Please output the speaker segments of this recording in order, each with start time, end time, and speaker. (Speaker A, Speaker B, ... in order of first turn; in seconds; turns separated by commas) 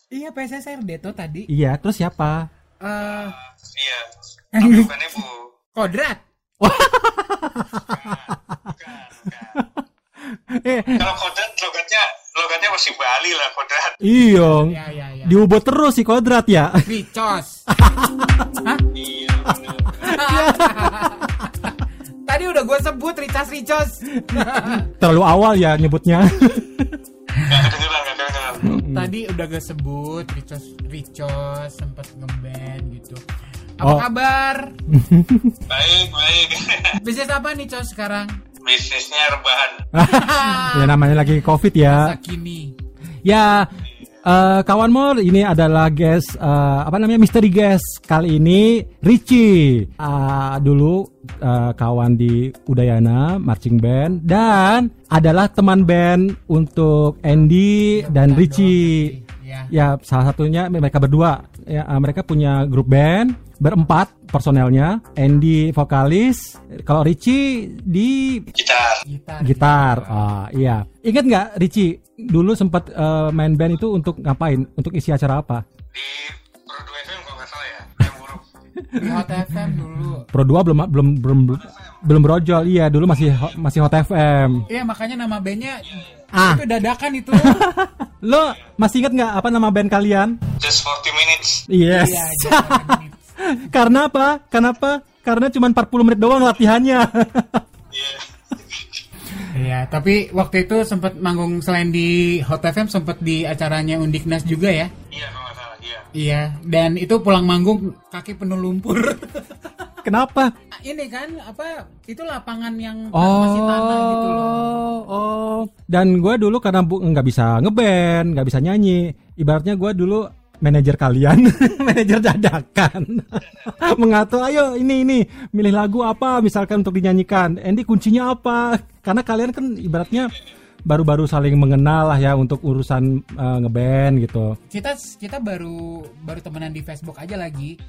Speaker A: 0.1-1.5, Speaker B: 1.5-2.5, Speaker A: 2.8-3.4, Speaker C: 3.0-5.5, Speaker A: 4.5-5.1, Speaker A: 5.7-6.2, Speaker B: 6.6-8.3, Speaker C: 7.9-9.6, Speaker B: 9.5-11.1, Speaker C: 10.9-14.0, Speaker B: 14.0-16.9, Speaker A: 14.3-15.4, Speaker A: 16.9-18.8, Speaker B: 17.8-18.4, Speaker C: 18.9-20.2, Speaker A: 20.0-24.9, Speaker B: 20.0-21.1, Speaker B: 24.3-27.0, Speaker C: 27.4-28.6, Speaker B: 28.6-29.1, Speaker A: 28.8-33.2, Speaker A: 33.8-34.7, Speaker B: 34.9-35.5, Speaker C: 35.7-36.9, Speaker A: 37.0-38.4, Speaker C: 38.6-39.9, Speaker B: 39.9-42.1, Speaker A: 40.0-41.2, Speaker A: 41.8-42.7, Speaker B: 43.2-59.1, Speaker C: 43.8-44.2, Speaker A: 57.9-59.7, Speaker B: 59.7-68.5, Speaker C: 68.5-69.0, Speaker A: 69.0-70.3, Speaker B: 69.4-75.6, Speaker C: 75.9-78.5, Speaker B: 78.8-84.7, Speaker A: 79.0-80.3, Speaker C: 81.5-82.0, Speaker C: 83.2-83.5, Speaker A: 84.7-87.7, Speaker C: 85.9-86.2, Speaker B: 86.3-86.7, Speaker B: 87.3-90.4, Speaker C: 90.6-91.6, Speaker B: 91.7-97.6, Speaker A: 91.9-93.3, Speaker C: 97.9-99.0, Speaker A: 99.4-104.9, Speaker C: 105.1-106.0, Speaker A: 106.1-109.7, Speaker B: 110.0-110.5, Speaker A: 110.8-114.8, Speaker B: 113.1-130.3, Speaker B: 130.9-134.6, Speaker A: 134.7-137.8